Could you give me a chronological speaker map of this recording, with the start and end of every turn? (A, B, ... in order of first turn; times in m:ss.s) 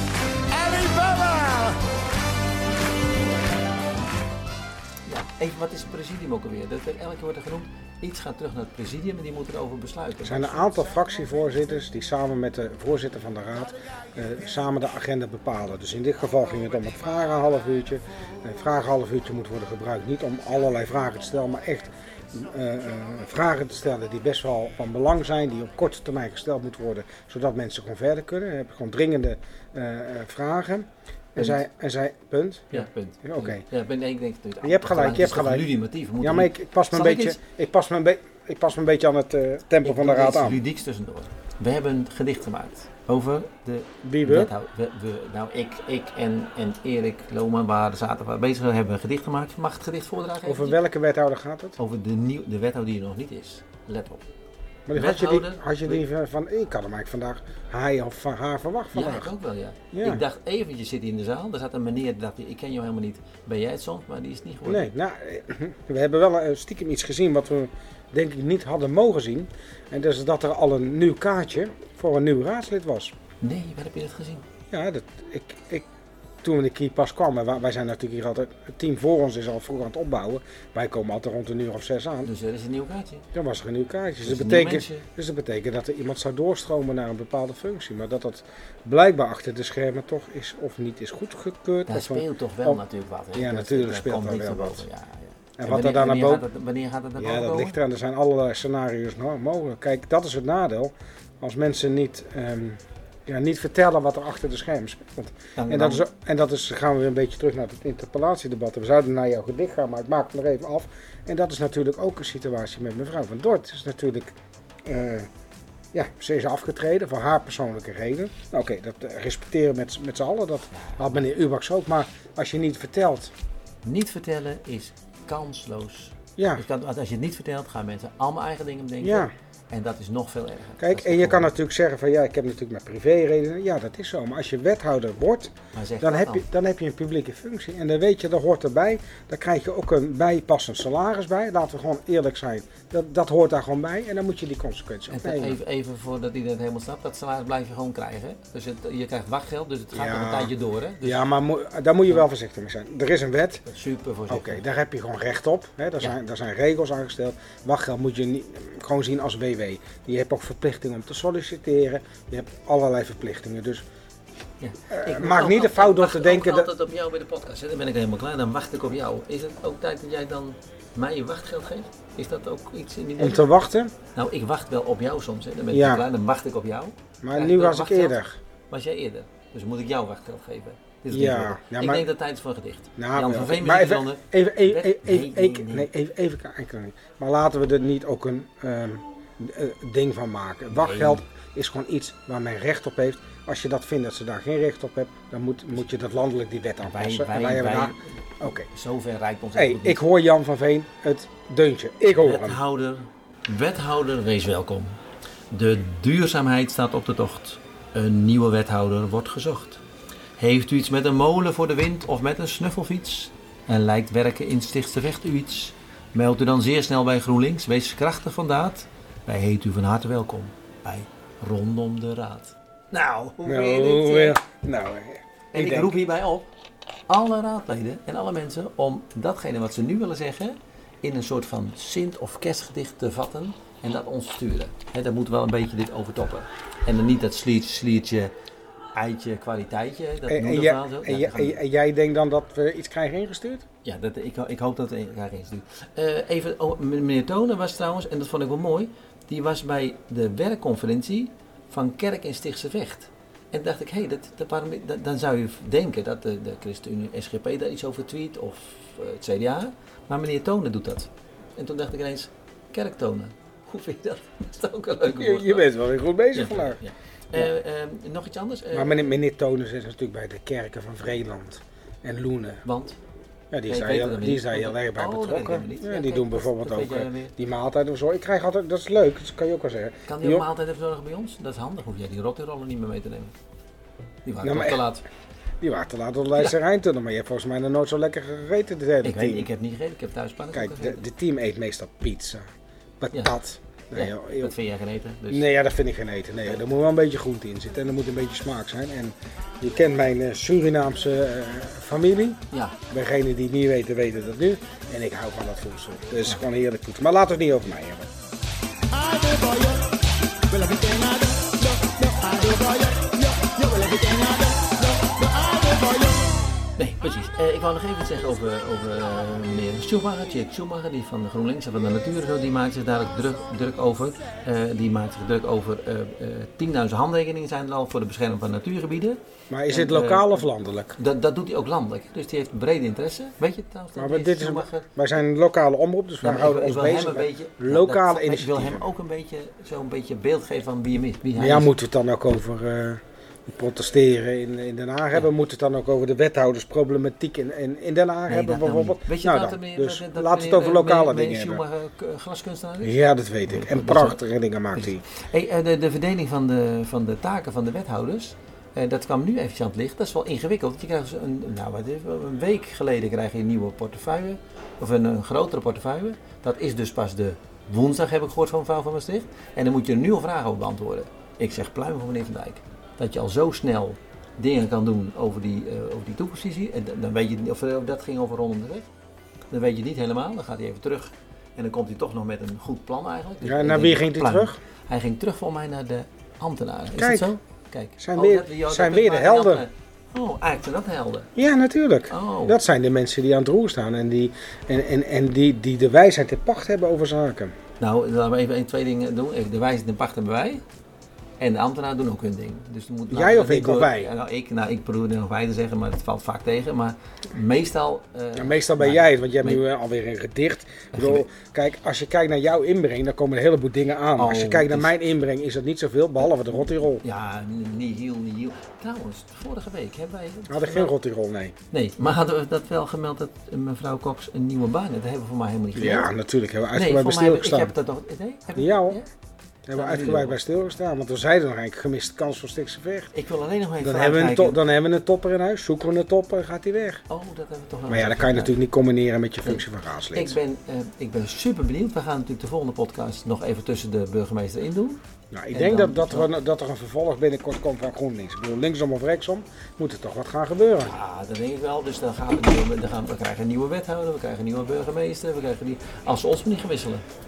0:00.5-0:01.7 A
0:05.0-0:10.8 B
0:10.2-0:33.6 C
0:31.4-0:31.6 B
0:32.7-0:37.4 B
0:34.6-0:40.6 C
0:39.8-0:50.8 B
0:44.0-0:44.5 C
0:50.4-0:51.8 C
0:51.8-0:54.2 B
0:54.9-0:59.3 C
0:54.9-0:56.0 B
0:58.9-1:04.9 B
0:59.9-1:00.2 C
1:04.6-1:13.1 C
1:13.4-1:14.4 B
1:14.7-1:15.8 C
1:16.4-1:22.3 C
1:22.2-1:23.3 B
1:23.3-1:32.8 C
1:24.2-1:25.1 B
1:31.9-1:37.8 B
1:33.3-1:34.8 C
1:35.6-1:36.4 C
1:37.2-1:55.3 C
1:45.6-1:46.0 B
1:55.9-2:03.3 C
2:00.7-2:01.0 B
2:03.8-2:11.5 B
2:06.4-2:06.6 C
2:09.0-2:09.3 C
2:10.8-2:25.6 C
2:15.7-2:16.4 B
2:25.1-2:31.3 B
2:29.9-2:33.6 C
2:33.6-2:34.6 B
2:34.3-2:43.8 C
2:44.6-2:53.5 B
2:44.9-2:46.7 C
2:53.2-2:53.9 C
2:54.1-2:58.2 B
2:55.7-2:56.0 C
2:57.2-2:58.4 C
2:58.7-3:05.9 B
3:01.1-3:02.0 C
3:03.0-3:18.6 C
3:10.7-3:11.2 B
3:16.8-3:18.0 B
3:18.6-3:20.0 B
3:19.5-3:22.6 C
3:22.0-3:25.0 B
3:25.5-3:29.8 B
3:30.4-3:44.4 B
3:43.4-3:46.0 C
3:45.5-3:46.5 B
3:47.1-3:58.3 B
3:58.9-4:01.6 B
4:00.3-4:03.6 C
4:03.8-4:25.7 B
4:25.1-4:26.8 C
4:26.3-4:29.1 B
4:28.7-4:32.6 C
4:32.6-4:33.0 B
4:33.5-4:40.4 C
4:33.7-4:37.3 B
4:40.1-4:43.3 B
4:44.2-4:45.0 B
4:44.4-4:44.8 C
4:45.6-4:49.5 C
4:49.0-4:51.0 B
4:50.5-4:52.4 C
4:53.0-4:54.5 C
4:53.9-4:55.5 B
4:55.3-5:08.1 C
5:02.5-5:02.8 B
5:08.9-5:09.9 A
5:10.5-5:16.2 A
5:16.8-5:34.9 B
5:29.5-5:31.0 C
5:34.0-5:38.9 C
5:36.2-5:41.7 B
5:41.4-5:51.6 C
5:48.3-5:54.2 B
5:52.8-5:55.0 C
5:54.7-6:18.9 B
6:19.5-6:31.3 B
6:23.4-6:24.6 C
6:26.9-6:27.3 C
6:28.0-6:29.6 C
6:31.4-6:37.5 C
6:32.1-6:32.6 B
6:37.8-6:40.6 B
6:41.4-6:49.6 B
6:43.1-6:44.1 C
6:48.3-6:57.0 C
6:50.9-6:51.2 B
6:54.2-6:55.0 B
6:56.4-7:00.9 B
7:00.5-7:01.5 C
7:01.7-7:06.1 B
7:05.7-7:07.7 C
7:06.7-7:09.0 B
7:08.6-7:09.0 C
7:09.7-7:13.1 C
7:09.7-7:10.4 B
7:13.1-7:14.6 B
7:13.8-7:17.0 C
7:17.1-7:18.5 B
7:17.9-7:20.4 C
7:19.4-7:25.0 B
7:25.3-7:30.9 C
7:25.5-7:26.3 B
7:30.8-7:37.0 B